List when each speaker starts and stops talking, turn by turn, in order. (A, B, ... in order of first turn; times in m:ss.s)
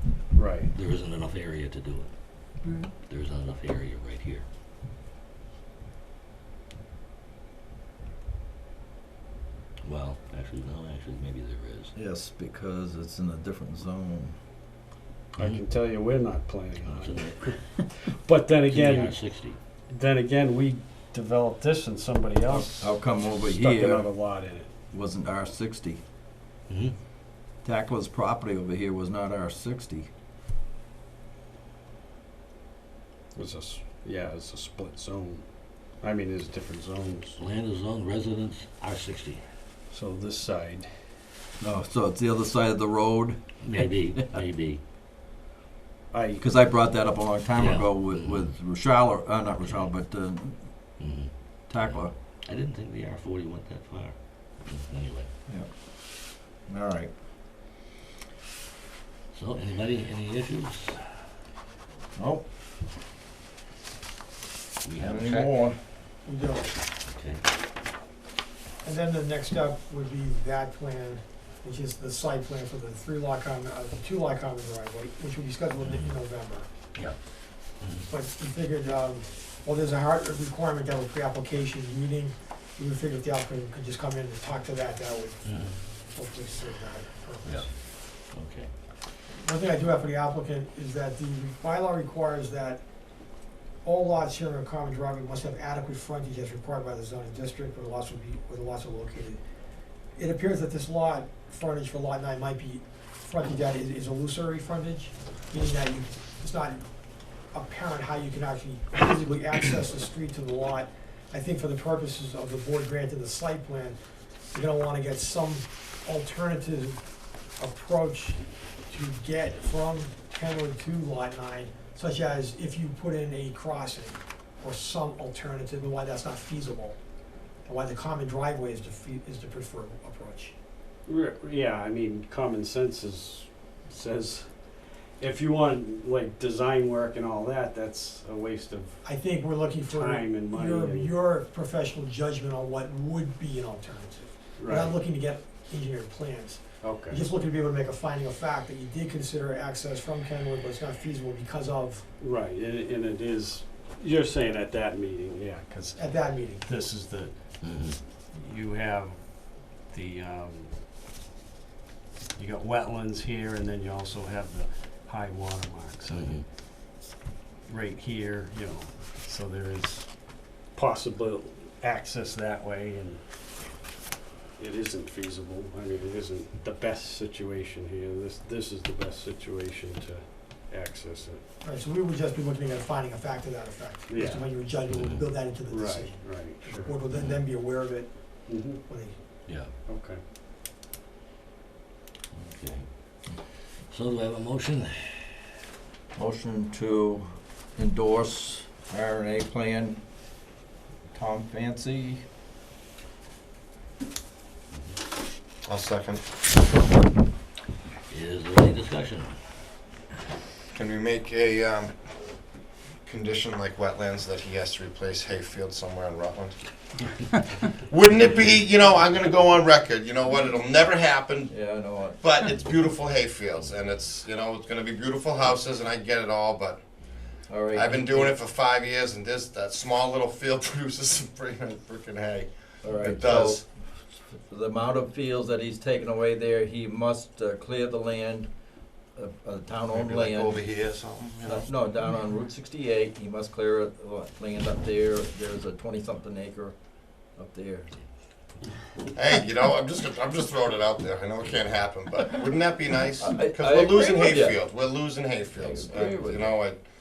0:00.3-0:00.7 A
0:00.7-0:02.1 B
0:03.0-0:04.4 B
0:09.8-0:11.9 B
0:12.0-0:14.4 C
0:15.4-0:24.7 A
0:16.8-0:17.6 B
0:18.7-0:19.6 B
0:22.5-0:24.1 C
0:24.9-0:26.0 C
0:26.7-0:27.0 B
0:27.6-0:30.1 C
0:33.4-0:37.4 A
0:37.4-0:39.4 B
0:39.9-0:40.9 A
0:41.6-0:44.4 C
0:43.6-0:44.8 B
0:46.1-0:46.5 A
0:46.4-0:50.7 C
0:47.6-0:48.4 B
0:51.0-0:55.3 B
0:51.7-0:52.1 C
0:56.7-0:57.1 C
0:59.3-1:01.0 B
1:02.2-1:02.4 C
1:04.8-1:05.5 B
1:05.0-1:05.8 C
1:06.2-1:06.8 D
1:07.1-1:07.4 B
1:08.8-1:16.7 D
1:15.8-1:16.1 B
1:17.8-1:18.1 B
1:18.1-1:27.7 D
1:25.4-1:25.8 B
1:27.4-1:28.7 B
1:29.3-1:32.8 D
1:33.8-1:39.4 D
1:40.2-1:46.8 D
1:47.5-1:54.0 D
1:54.5-1:57.0 D
1:57.6-2:07.0 D
2:07.7-2:10.6 D
2:11.1-2:19.0 A
2:19.0-2:32.1 D
2:19.8-2:21.2 A
2:24.6-2:25.0 A
2:26.8-2:27.2 A
2:32.2-2:40.8 A
2:36.0-2:36.6 D
2:37.6-2:38.0 B
2:42.4-2:46.4 A
2:46.1-2:46.4 B
2:47.7-2:53.2 A
2:54.6-3:01.4 A
3:01.6-3:09.2 D
3:04.1-3:04.7 A
3:04.9-3:05.2 B
3:05.7-3:07.0 A
3:07.1-3:07.4 B
3:08.5-3:08.8 A
3:09.5-3:09.7 B
3:09.9-3:10.2 A
3:12.3-3:12.9 B
3:13.9-3:15.2 B
3:16.2-3:20.0 C
3:21.1-3:22.2 C
3:25.7-3:26.2 E
3:28.1-3:29.3 B
3:30.7-3:31.9 E
3:33.1-3:36.6 E
3:37.8-3:41.6 E
3:41.5-3:42.2 C
3:42.2-3:46.8 E
3:47.5-3:48.4 C
3:47.7-3:53.6 E
3:52.8-3:53.7 C
3:54.3-3:58.5 C
3:59.2-4:00.6 C
3:59.9-4:01.7 E
4:01.4-4:06.8 C
4:07.4-4:07.9 C
4:09.1-4:16.8 E
4:13.2-4:14.6 C
4:15.5-4:16.6 C